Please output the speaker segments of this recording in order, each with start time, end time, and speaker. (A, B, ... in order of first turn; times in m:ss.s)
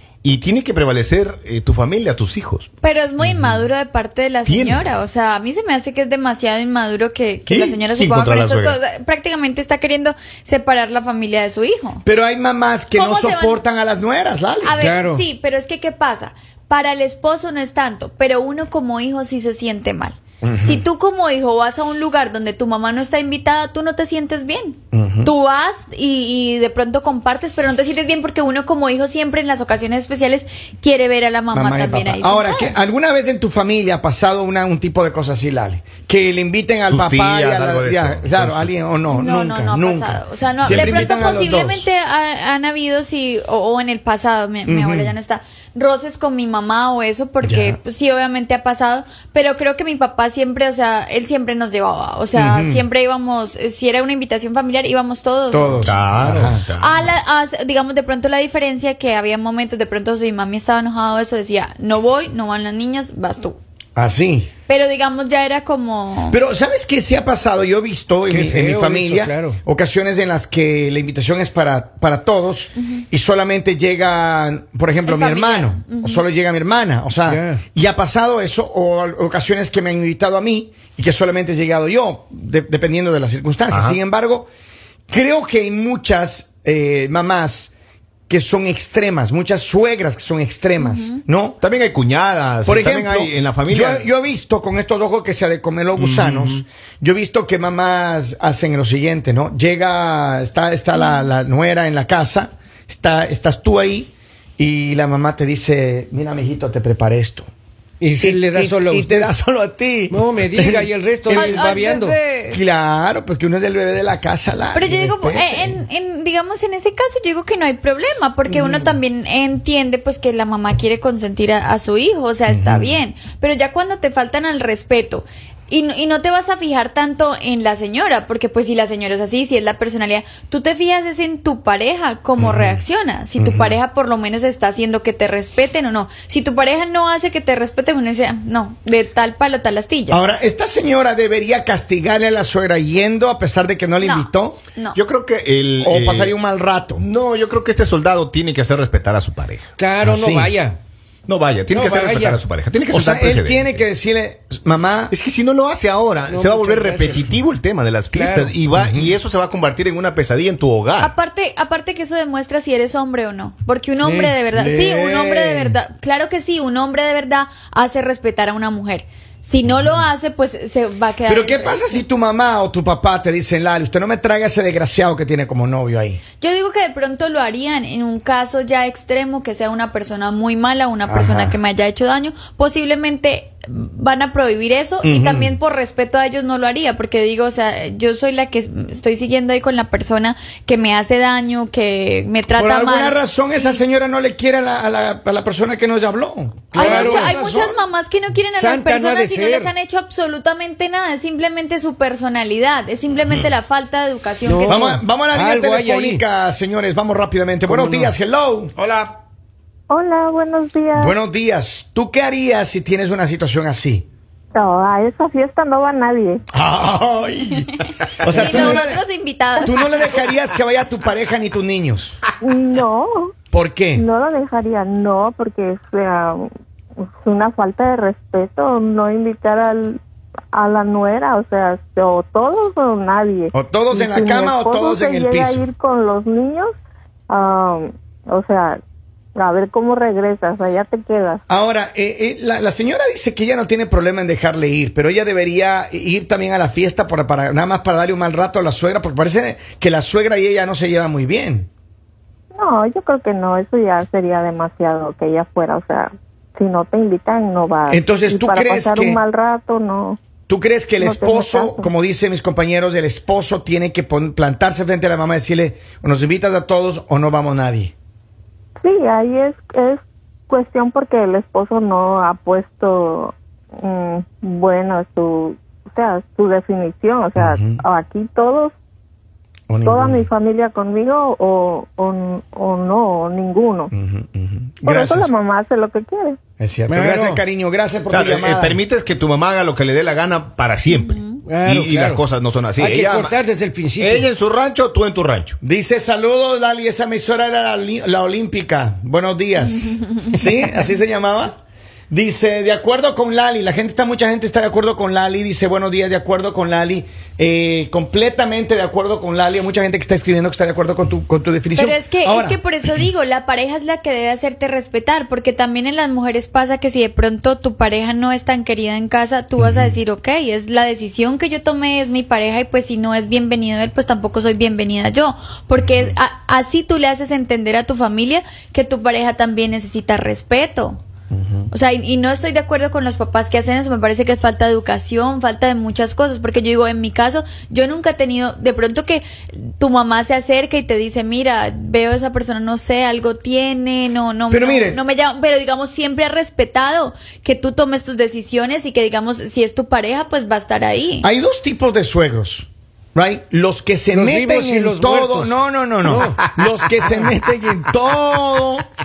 0:00.2-0:02.7 A
0:02.8-0:12.0 B
0:04.4-0:04.8 A
0:07.5-0:07.8 C
0:07.8-0:08.8 A
0:12.0-0:14.8 C
0:12.9-0:13.6 B
0:14.6-0:32.7 B
0:14.8-0:15.2 D
0:20.4-0:20.8 C
0:24.9-0:25.3 C
0:31.5-0:41.9 C
0:36.8-0:38.7 A
0:39.1-1:03.6 B
0:40.6-0:41.1 A
0:44.6-0:45.1 C
0:47.4-0:47.8 C
0:52.3-0:52.8 C
0:55.5-0:56.6 C
0:55.8-0:57.1 A
1:04.0-1:04.5 C
1:04.7-1:06.4 B
1:06.3-1:24.5 C
1:08.3-1:09.6 D
1:15.0-1:16.2 B
1:17.3-1:17.6 D
1:23.7-1:24.0 A
1:25.1-1:27.7 C
1:28.3-1:31.6 C
1:30.8-1:31.2 B
1:31.6-1:34.1 A
1:32.6-1:47.5 C
1:36.0-1:36.6 A
1:48.0-1:49.3 D
1:48.2-1:51.8 C
1:50.1-1:52.2 D
1:51.3-1:52.6 B
1:52.5-1:55.8 C
1:54.7-2:20.2 B
2:02.5-2:03.0 C
2:12.4-2:12.8 C
2:13.4-2:13.8 C
2:20.1-2:24.6 C
2:24.0-2:25.0 B
2:24.9-2:26.3 A
2:25.8-2:27.0 C
2:27.0-2:29.7 A
2:29.8-2:30.8 D
2:30.0-2:30.5 C
2:31.3-2:33.8 A
2:31.7-2:32.4 D
2:32.9-2:35.1 C
2:35.1-2:41.1 A
2:36.3-2:37.3 D
2:38.1-2:38.6 D
2:38.7-2:39.1 C
2:41.0-2:52.0 B
2:44.0-2:44.4 D
2:44.5-2:45.8 C
2:51.3-2:56.2 C
2:56.4-3:13.8 B
3:01.0-3:01.6 C
3:05.0-3:05.6 C
3:12.6-3:17.8 C
3:16.7-3:17.4 D
3:16.7-3:24.8 B
3:18.5-3:19.7 D
3:24.4-3:26.2 D
3:24.7-3:28.7 C
3:27.7-3:28.1 D
3:28.8-3:29.2 A
3:29.9-3:31.2 E
3:30.9-3:34.0 C
3:34.5-3:36.4 E
3:36.5-3:37.7 C
3:38.2-3:39.0 C
3:38.2-3:38.8 A
3:38.3-3:39.8 B
3:39.6-3:42.2 C
3:42.4-3:43.3 E
3:43.5-3:44.0 C
3:44.0-3:46.4 E
3:47.2-3:50.0 E
3:50.5-3:56.7 E
3:53.5-3:55.6 C
3:57.3-3:58.8 E
3:59.4-4:01.4 E
4:01.5-4:11.7 C
4:12.6-4:20.2 E
4:17.9-4:19.2 C
4:20.5-4:27.9 C
4:21.0-4:21.9 E
4:28.8-4:38.7 E
4:37.3-4:37.8 C
4:39.7-4:40.2 C
4:39.8-4:43.9 E
4:43.9-4:45.3 C
4:44.8-4:46.4 E
4:46.6-4:48.8 C
4:46.9-4:47.4 D
4:48.1-4:53.4 A
4:50.9-4:51.4 B
4:51.4-4:52.2 D
4:52.8-4:54.3 D
4:54.0-4:55.6 A
4:55.6-5:01.6 C
5:02.1-5:12.6 C
5:11.7-5:31.0 B
5:19.6-5:19.9 C
5:31.3-5:31.6 C
5:31.7-5:51.3 B
5:44.5-5:45.0 C
5:51.2-5:58.8 C
5:54.1-5:56.5 D